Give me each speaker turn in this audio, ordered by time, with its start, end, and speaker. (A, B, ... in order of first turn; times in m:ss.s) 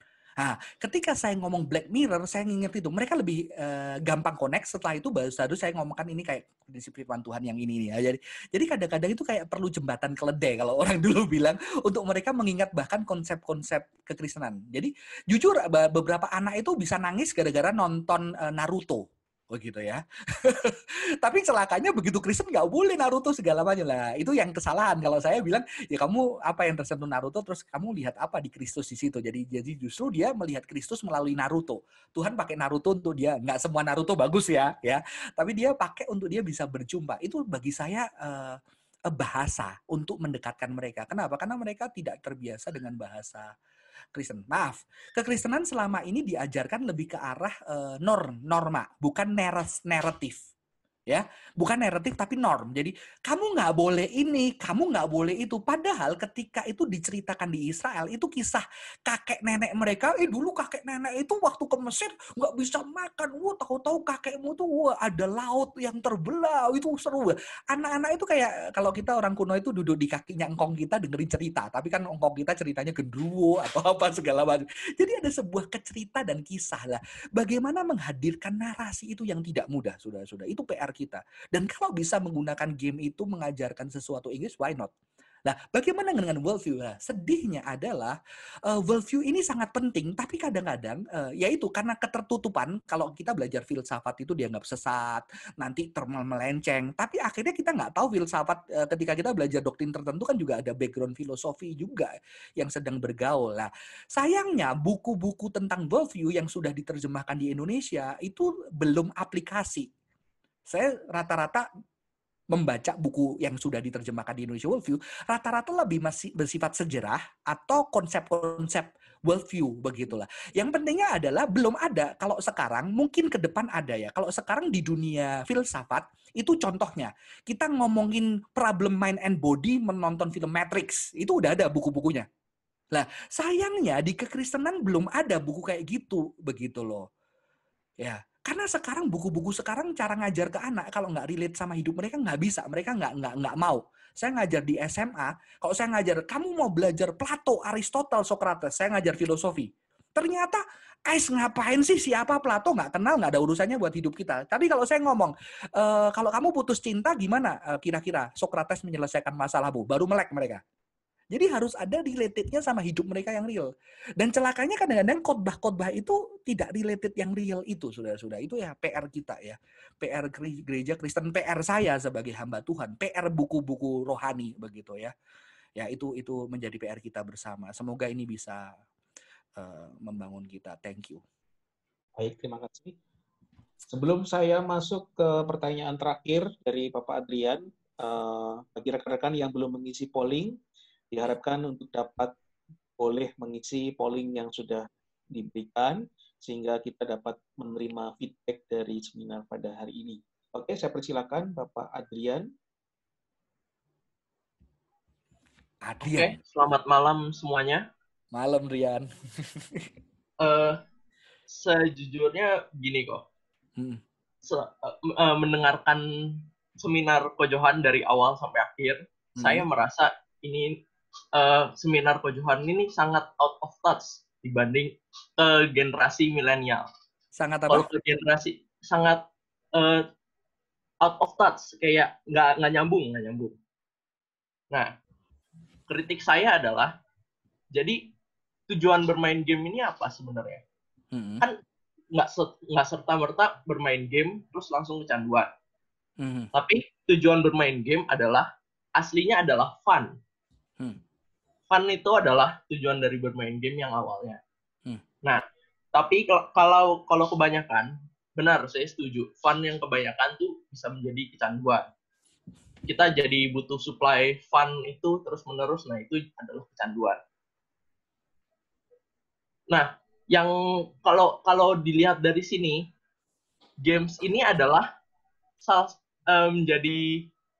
0:00.4-0:38.6 A
0:39.1-0:43.5 A
0:44.1-0:50.4 A
0:51.1-1:24.9 A
1:25.4-1:49.9 A
1:50.7-1:51.6 A
1:52.5-2:12.3 A
2:12.9-2:17.1 A
2:18.0-2:40.6 A
2:41.3-2:43.7 A
2:44.2-2:55.1 A
2:55.8-2:58.7 A
2:59.6-3:01.2 A
3:02.2-3:02.9 B
3:03.9-3:10.6 B
3:11.1-3:12.3 B
3:13.0-3:22.5 B
3:25.8-3:26.4 A
3:26.0-3:27.8 C
3:28.3-3:29.8 A
3:30.4-3:30.8 C
3:31.5-3:33.2 C
3:34.4-3:40.8 C
3:39.4-3:39.6 A
3:41.3-3:46.8 C
3:47.4-3:47.9 A
3:47.7-3:49.2 C
3:49.7-3:50.0 C
3:51.0-3:53.5 C
3:55.9-3:56.9 C
3:57.7-3:58.0 C
3:58.7-4:00.6 C
4:01.1-4:01.4 A
4:02.1-4:05.5 C
4:06.2-4:06.5 A
4:06.5-4:10.2 C
4:11.7-4:14.4 C
4:15.9-4:21.8 C
4:22.9-4:27.2 C
4:29.7-4:32.8 C
4:33.8-4:34.9 C
4:35.6-4:37.0 C